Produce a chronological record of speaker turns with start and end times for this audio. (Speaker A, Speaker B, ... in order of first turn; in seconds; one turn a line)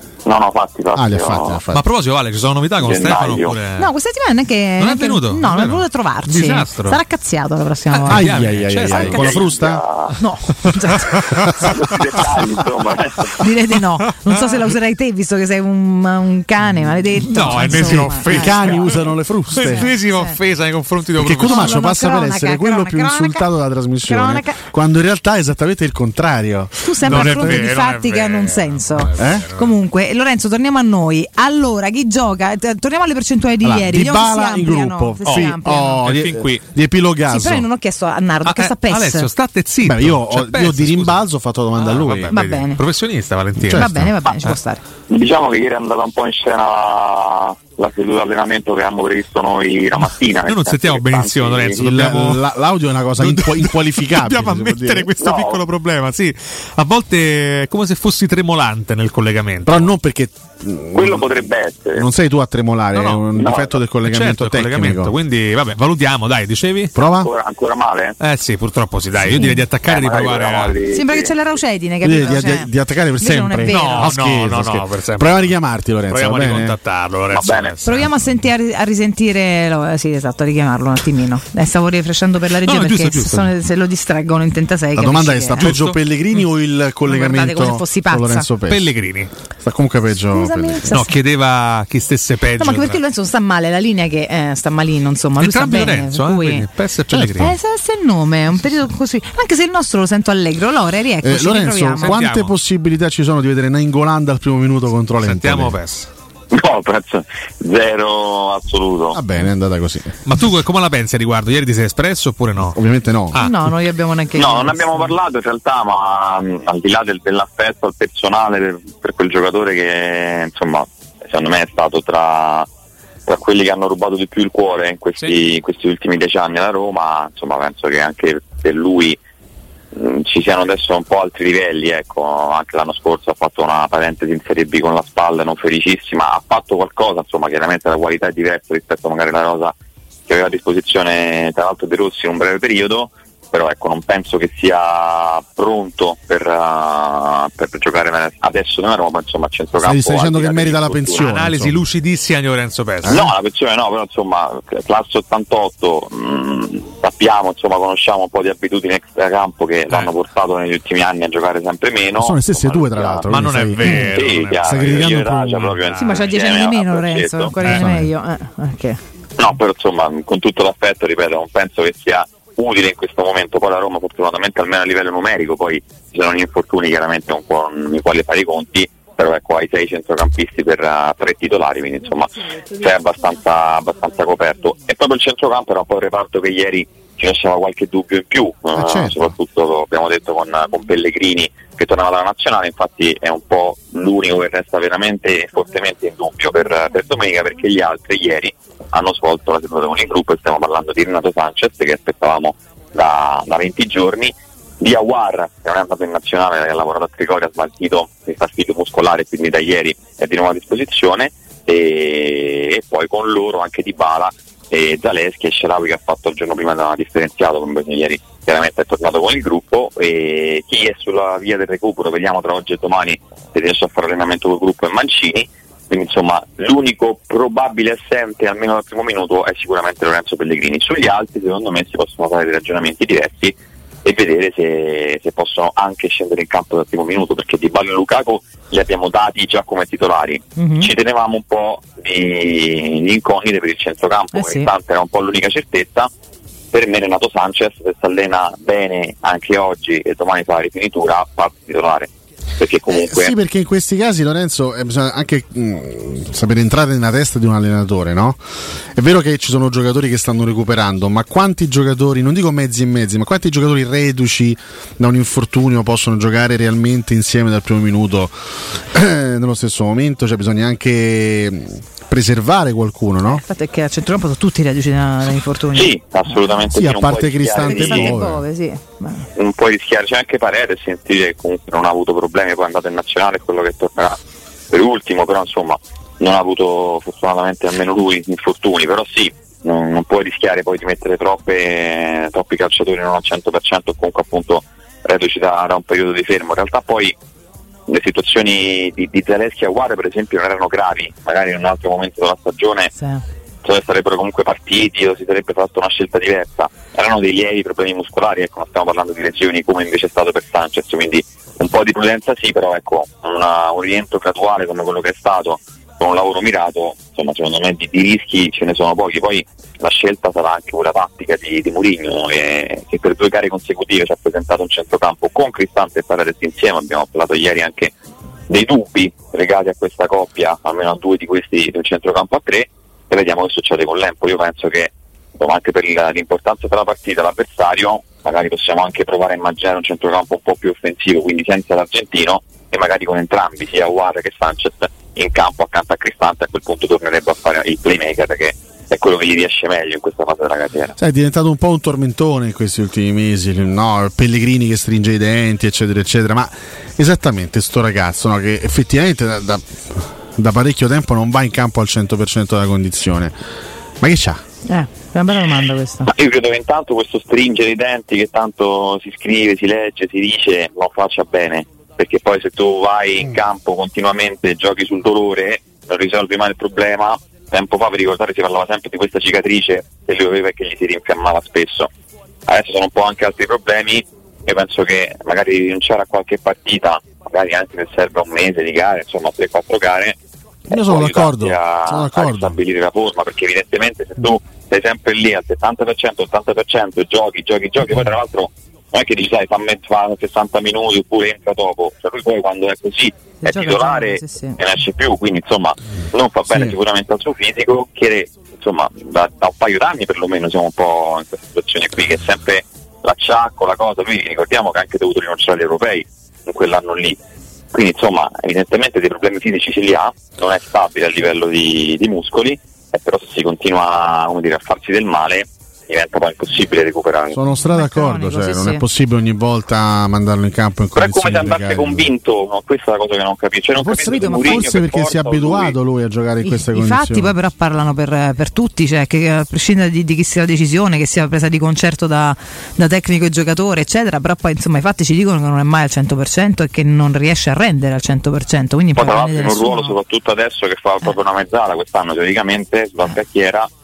Speaker A: 0.2-1.6
Speaker B: 0.9-1.9
Speaker C: 1.7-3.9
Speaker A: 2.8-3.6
Speaker D: 3.8-8.3
Speaker C: 4.8-7.0
Speaker C: 8.0-9.5
Speaker B: 8.0-9.8
Speaker A: 8.9-10.2
Speaker D: 10.2-11.5
Speaker C: 10.9-11.6
Speaker A: 11.6-13.4
Speaker D: 13.4-18.9
Speaker C: 14.1-14.5
Speaker C: 17.2-21.8
Speaker B: 17.7-19.9
Speaker D: 19.6-20.4
Speaker B: 21.2-27.7
Speaker D: 21.4-23.5
Speaker D: 24.0-24.6
Speaker D: 26.8-36.0
Speaker C: 27.0-29.7
Speaker B: 29.1-29.5
Speaker B: 33.6-37.7
Speaker C: 35.2-36.6
Speaker D: 37.3-39.3
Speaker C: 38.4-41.2
Speaker B: 39.8-42.3
Speaker C: 41.7-44.6
Speaker D: 42.3-42.8
Speaker D: 43.7-44.8
Speaker A: 45.1-51.8
Speaker C: 50.5-52.5
Speaker B: 51.8-55.1
Speaker C: 53.2-59.9
Speaker A: 55.2-55.6
Speaker B: 59.6-65.1
Speaker A: 60.9-62.1
Speaker C: 62.9-63.3
Speaker A: 63.3-63.8
Speaker C: 63.9-66.9
Speaker B: 66.9-67.3
Speaker A: 67.0-68.2
Speaker C: 68.2-70.8
Speaker D: 69.3-69.6
Speaker A: 69.8-71.3
Speaker D: 70.9-74.2
Speaker B: 72.0-76.8
Speaker C: 73.7-75.5
Speaker C: 76.1-78.1
Speaker A: 77.3-77.8
Speaker D: 77.8-85.7
Speaker C: 82.6-83.5
Speaker B: 84.9-88.9
Speaker C: 85.6-86.0
Speaker D: 87.1-88.5
Speaker C: 88.7-89.3
Speaker B: 89.6-91.0
Speaker D: 90.3-91.1
Speaker C: 90.9-93.0
Speaker D: 92.6-96.7
Speaker C: 95.4-97.5
Speaker B: 97.1-97.5
Speaker D: 97.3-102.2
Speaker B: 101.2-105.8
Speaker C: 102.0-102.5
Speaker C: 105.2-106.1
Speaker A: 106.5-109.2
Speaker B: 109.1-110.1
Speaker C: 110.2-112.8
Speaker B: 112.7-113.5
Speaker C: 113.3-113.6
Speaker D: 113.3-115.1
Speaker A: 114.3-122.7
Speaker A: 123.3-129.2
Speaker A: 129.9-139.7
Speaker A: 140.3-151.3
Speaker B: 149.8-151.8
Speaker C: 151.2-153.2
Speaker B: 153.0-153.3
Speaker A: 153.1-163.3
Speaker B: 162.2-165.7
Speaker C: 163.3-166.2
Speaker A: 164.1-167.5
Speaker D: 166.0-169.0
Speaker C: 167.6-167.9
Speaker B: 167.6-168.1
Speaker A: 169.4-246.1
Speaker B: 188.8-189.3
Speaker D: 240.6-240.9
Speaker D: 244.3-244.7
Speaker A: 246.7-253.3
Speaker B: 252.9-258.4
Speaker B: 258.9-273.4
Speaker D: 273.2-276.7
Speaker A: 275.7-278.1
Speaker B: 276.7-278.4
Speaker D: 277.6-279.2
Speaker A: 279.4-284.2
Speaker A: 284.7-297.1
Speaker A: 297.9-302.9
Speaker D: 302.9-303.2
Speaker A: 303.6-327.9
Speaker A: 328.5-350.9
Speaker B: 351.0-363.3
Speaker B: 364.0-364.4
Speaker D: 364.6-366.1
Speaker A: 366.1-381.9
Speaker A: 382.5-390.2
Speaker B: 390.7-392.6
Speaker A: 390.7-417.2
Speaker D: 403.4-404.6
Speaker A: 417.7-427.4
Speaker B: 427.3-432.1
Speaker D: 427.7-428.8
Speaker A: 430.9-435.8
Speaker B: 433.8-437.3
Speaker D: 434.0-434.7
Speaker D: 436.4-449.9
Speaker A: 448.9-453.7